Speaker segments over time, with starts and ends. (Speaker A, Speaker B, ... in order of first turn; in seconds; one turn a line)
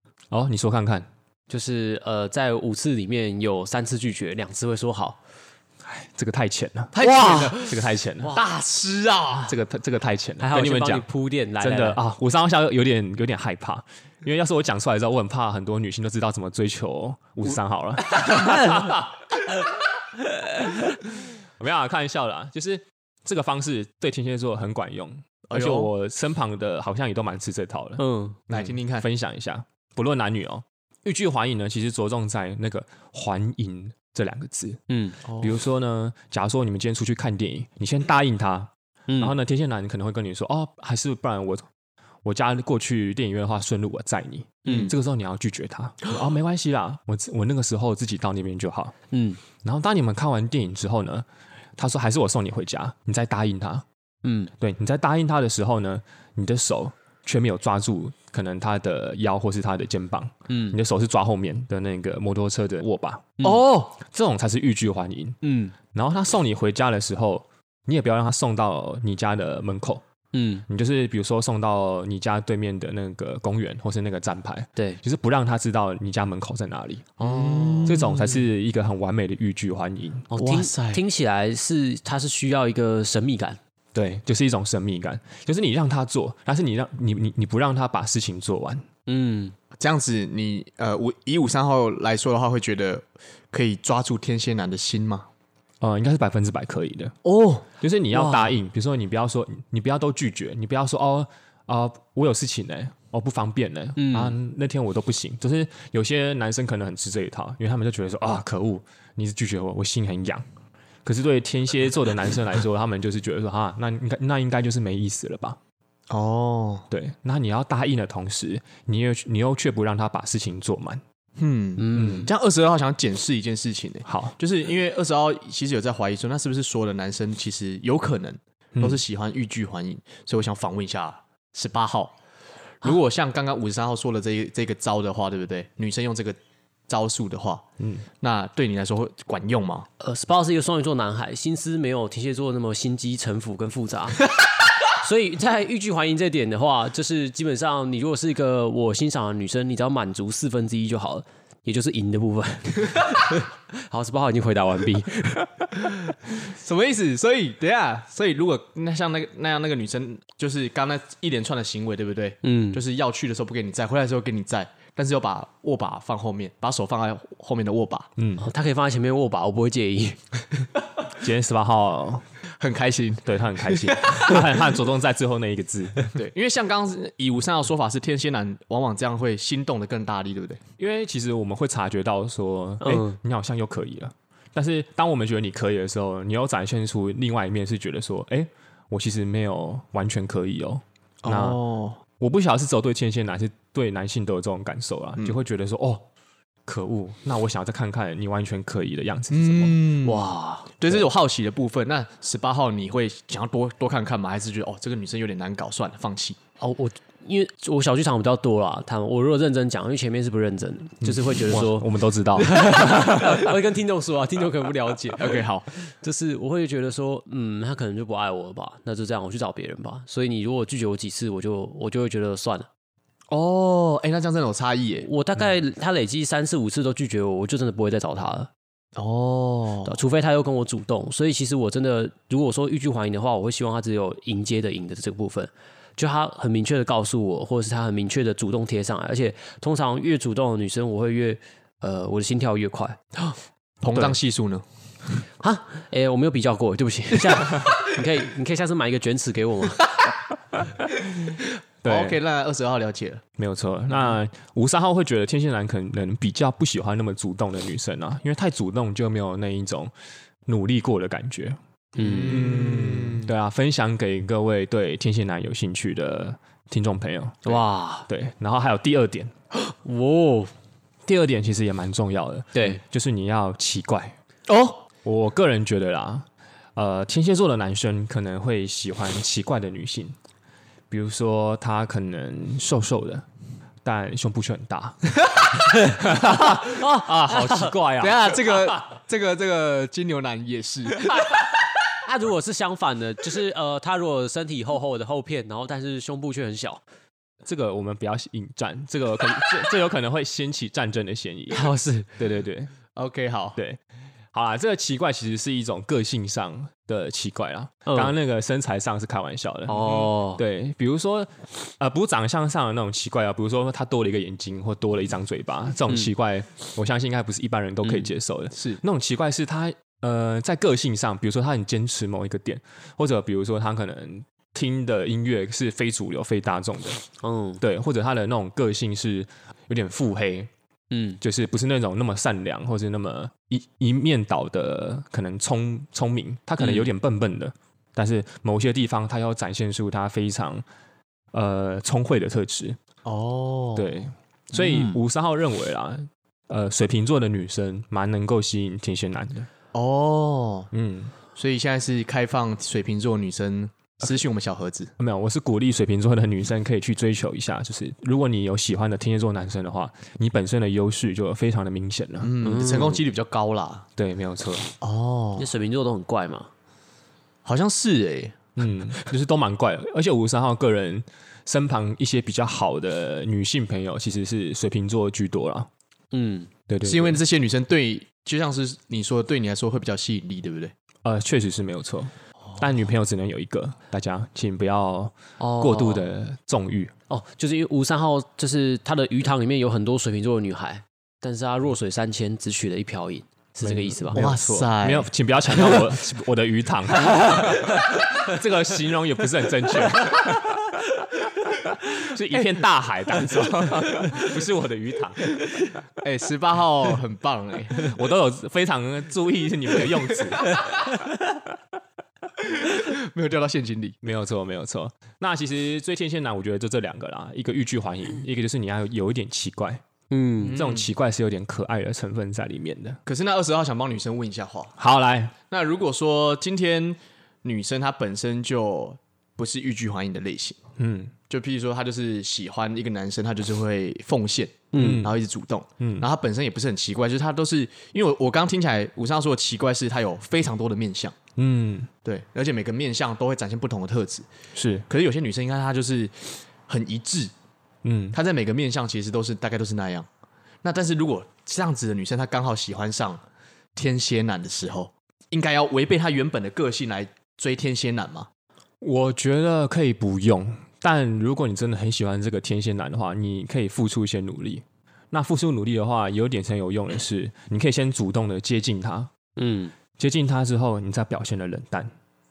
Speaker A: 0.3-1.1
Speaker B: 1.5-5.2
Speaker A: 5.8-8.4
Speaker C: 6.9-7.8
Speaker B: 7.0-7.6
Speaker C: 8.3-9.5
Speaker A: 9.5-11.0
Speaker B: 10.4-12.0
Speaker A: 11.6-19.1
Speaker B: 18.2-18.9
Speaker A: 21.6-34.8
Speaker C: 25.5-25.9
Speaker B: 28.0-28.4
Speaker C: 28.5-29.1
Speaker B: 34.9-35.2
Speaker C: 35.2-35.6
Speaker A: 35.4-41.6
Speaker B: 39.1-39.3
Speaker A: 42.2-48.9
Speaker B: 44.6-44.9
Speaker B: 49.1-49.4
Speaker A: 49.6-51.2
Speaker A: 51.8-53.8
Speaker B: 54.2-54.5
Speaker A: 54.6-63.5
Speaker B: 60.5-60.8
Speaker B: 63.4-63.8
Speaker C: 63.4-63.9
Speaker A: 64.0-65.4
Speaker B: 65.4-65.7
Speaker A: 65.9-70.0
Speaker B: 70.3-70.7
Speaker A: 70.7-77.1
Speaker B: 77.2-78.0
Speaker C: 77.2-78.4
Speaker A: 77.8-80.3
Speaker B: 80.3-83.6
Speaker C: 80.3-81.0
Speaker A: 83.9-88.8
Speaker B: 89.1-89.5
Speaker C: 89.8-95.3
Speaker A: 95.8-97.2
Speaker B: 97.5-98.5
Speaker A: 97.8-110.4
Speaker B: 104.0-104.3
Speaker A: 111.0-115.6
Speaker C: 116.1-116.9
Speaker A: 116.9-121.0
Speaker C: 121.4-132.1
Speaker B: 121.8-122.3
Speaker A: 122.0-122.2
Speaker A: 124.0-124.3
Speaker A: 128.7-129.0
Speaker C: 132.8-136.4
Speaker C: 136.9-137.6
Speaker A: 137.8-138.1
Speaker C: 138.2-139.9
Speaker B: 140.0-155.7
Speaker C: 156.2-168.1
Speaker B: 162.4-162.8
Speaker A: 168.2-168.4
Speaker B: 168.4-170.4
Speaker A: 171.2-172.2
Speaker C: 172.6-174.4
Speaker A: 173.2-176.1
Speaker C: 176.1-180.6
Speaker A: 180.8-191.6
Speaker B: 182.8-183.2
Speaker C: 191.2-192.0
Speaker A: 192.2-196.1
Speaker A: 196.7-199.8
Speaker C: 199.3-206.4
Speaker B: 200.0-200.7
Speaker B: 206.6-222.7
Speaker A: 211.0-213.5
Speaker C: 215.2-215.7
Speaker C: 223.3-225.1
Speaker B: 225.0-228.5
Speaker C: 229.0-229.9
Speaker B: 229.8-243.0
Speaker C: 243.3-244.6
Speaker B: 245.4-249.9
Speaker A: 251.8-252.2
Speaker C: 251.8-253.2
Speaker A: 253.4-259.9
Speaker A: 260.5-269.3
Speaker B: 262.0-262.5
Speaker C: 262.0-263.3
Speaker B: 267.4-268.1
Speaker B: 269.8-270.5
Speaker A: 271.1-274.1
Speaker B: 272.5-272.8
Speaker C: 274.5-274.8
Speaker A: 275.0-280.1
Speaker A: 280.9-283.2
Speaker A: 283.8-285.1
Speaker A: 285.7-288.7
Speaker B: 285.9-287.7
Speaker C: 288.0-291.4
Speaker B: 292.0-296.8
Speaker A: 297.4-302.7
Speaker B: 301.5-302.1
Speaker C: 302.9-303.6
Speaker A: 303.6-303.8
Speaker A: 304.3-327.0
Speaker B: 307.9-308.1
Speaker B: 309.7-310.4
Speaker B: 317.8-318.1
Speaker C: 318.5-318.8
Speaker B: 327.2-327.6
Speaker A: 327.6-330.5
Speaker B: 330.9-331.2
Speaker A: 331.2-340.6
Speaker B: 336.6-336.9
Speaker A: 341.3-342.8
Speaker C: 343.0-344.0
Speaker A: 343.8-349.5
Speaker B: 344.6-345.0
Speaker C: 349.7-350.7
Speaker A: 350.7-351.1
Speaker C: 351.4-354.9
Speaker A: 355.0-362.3
Speaker C: 362.2-363.9
Speaker B: 362.4-363.0
Speaker A: 364.0-364.7
Speaker C: 364.8-365.5
Speaker B: 365.4-366.5
Speaker C: 367.4-368.4
Speaker A: 368.6-375.7
Speaker B: 376.1-376.5
Speaker A: 376.7-377.2
Speaker C: 376.8-380.7
Speaker A: 381.0-386.9
Speaker B: 385.4-386.1
Speaker B: 387.1-394.2
Speaker A: 393.6-400.8
Speaker C: 394.1-395.1
Speaker A: 401.6-405.3
Speaker C: 406.0-407.9
Speaker A: 407.7-410.8
Speaker C: 412.4-414.0
Speaker A: 414.0-419.8
Speaker B: 420.1-420.6
Speaker C: 420.4-420.9
Speaker A: 420.5-423.0
Speaker C: 423.1-424.7
Speaker A: 424.8-425.3
Speaker C: 425.5-430.6
Speaker A: 430.8-431.1
Speaker C: 431.3-441.1
Speaker B: 434.7-435.1
Speaker A: 434.7-435.1
Speaker A: 435.8-436.1
Speaker A: 441.4-441.9
Speaker C: 442.0-444.3
Speaker A: 444.5-444.8
Speaker C: 444.9-447.3
Speaker A: 447.8-448.2
Speaker C: 448.1-450.1
Speaker C: 450.6-453.2
Speaker C: 453.8-458.3
Speaker A: 458.8-469.1
Speaker B: 469.4-469.7
Speaker A: 470.0-471.9